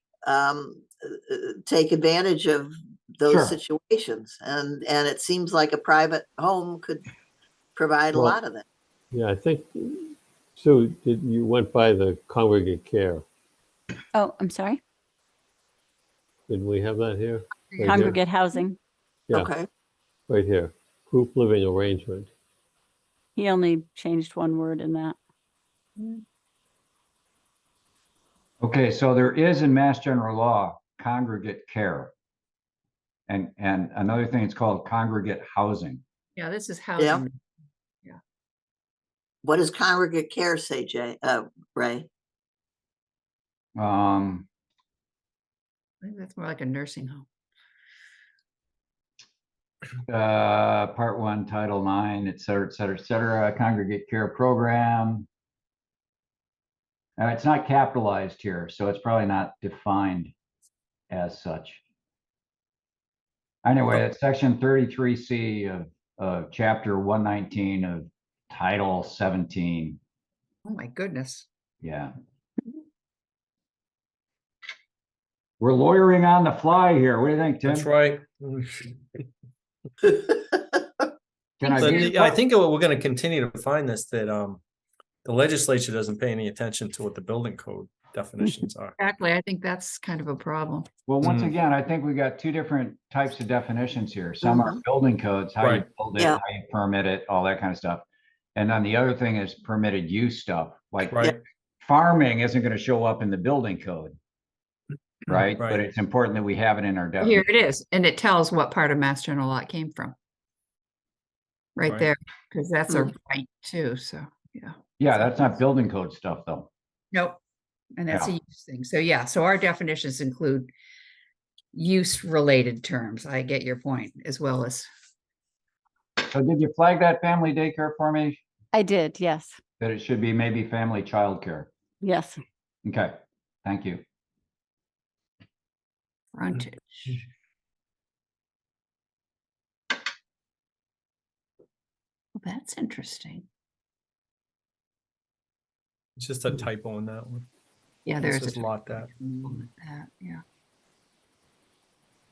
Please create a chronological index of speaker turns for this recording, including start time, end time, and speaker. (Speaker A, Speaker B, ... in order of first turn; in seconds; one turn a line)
Speaker A: 0.2-7.0
Speaker B: 3.3-3.5
Speaker A: 7.8-8.6
Speaker C: 8.1-8.4
Speaker C: 9.1-13.2
Speaker D: 14.1-14.8
Speaker C: 16.5-18.2
Speaker E: 17.7-18.1
Speaker D: 17.9-18.8
Speaker A: 19.3-19.7
Speaker C: 20.3-22.3
Speaker D: 23.4-25.2
Speaker E: 26.0-26.2
Speaker B: 28.6-32.1
Speaker B: 33.3-36.0
Speaker E: 36.4-37.4
Speaker A: 39.4-42.1
Speaker B: 43.8-44.5
Speaker E: 46.0-47.3
Speaker B: 50.1-55.3
Speaker B: 57.2-60.3
Speaker B: 61.1-61.8
Speaker B: 63.6-70.0
Speaker E: 70.7-71.5
Speaker B: 71.8-72.1
Speaker B: 75.6-77.9
Speaker F: 77.7-78.9
Speaker B: 81.6-82.4
Speaker E: 81.6-82.3
Speaker F: 81.8-84.6
Speaker F: 85.2-88.9
Speaker E: 89.0-90.9
Speaker B: 91.1-104.2
Speaker F: 91.2-91.5
Speaker A: 94.4-94.8
Speaker F: 101.1-101.4
Speaker B: 105.3-107.5
Speaker E: 107.2-110.2
Speaker E: 111.8-115.3
Speaker B: 115.0-116.7
Speaker E: 117.1-117.4
Speaker E: 118.0-120.7
Speaker E: 121.7-124.9
Speaker B: 126.3-128.4
Speaker D: 128.7-129.6
Speaker B: 129.8-131.7
Speaker D: 132.0-132.4
Speaker B: 132.8-134.0
Speaker E: 136.3-137.2
Speaker E: 142.4-143.5
Speaker F: 146.2-147.5
Speaker E: 148.1-150.4
Speaker F: 148.2-149.1